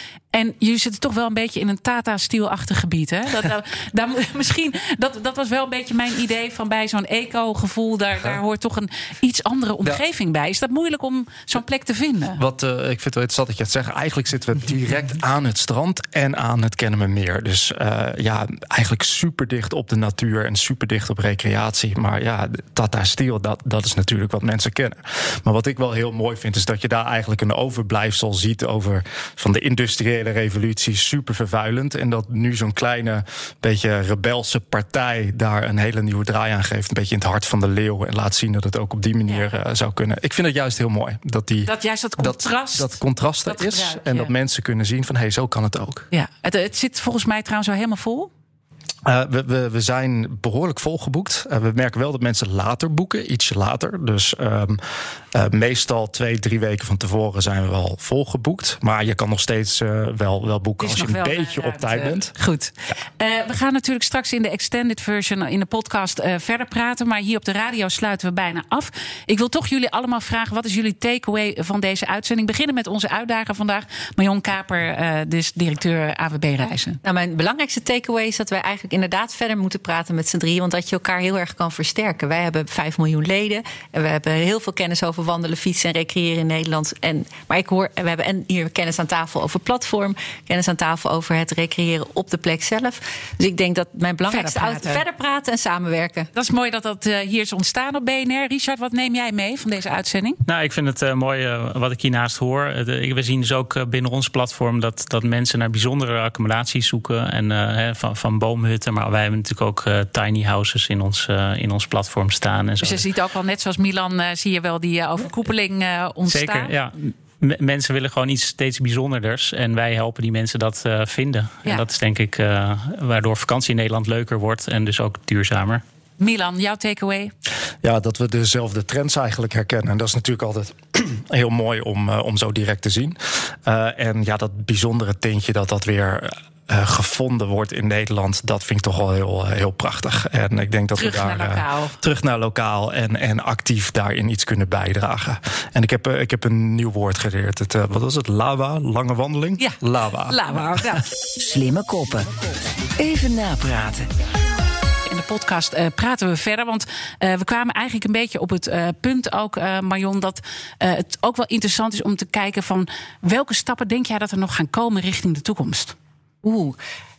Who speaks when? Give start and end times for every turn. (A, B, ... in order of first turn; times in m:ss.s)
0:00.3-0:12.4 A
0:12.4-0:46.1 B
0:41.6-0:44.3 A
0:46.1-0:48.3 A
0:49.0-0:54.8 B
0:55.3-1:02.3 B
1:00.8-1:17.0 A
1:17.0-1:36.3 C
1:34.3-1:35.0 A
1:36.3-1:40.4 A
1:40.4-1:53.0 D
1:52.8-1:56.7 A
1:56.3-2:05.8 D
2:06.2-2:07.3 A
2:07.8-2:30.4 B
2:21.0-2:22.0 A
2:29.6-2:31.0 A
2:31.4-2:34.1 E
2:35.1-2:46.0 A
2:46.4-2:46.8 C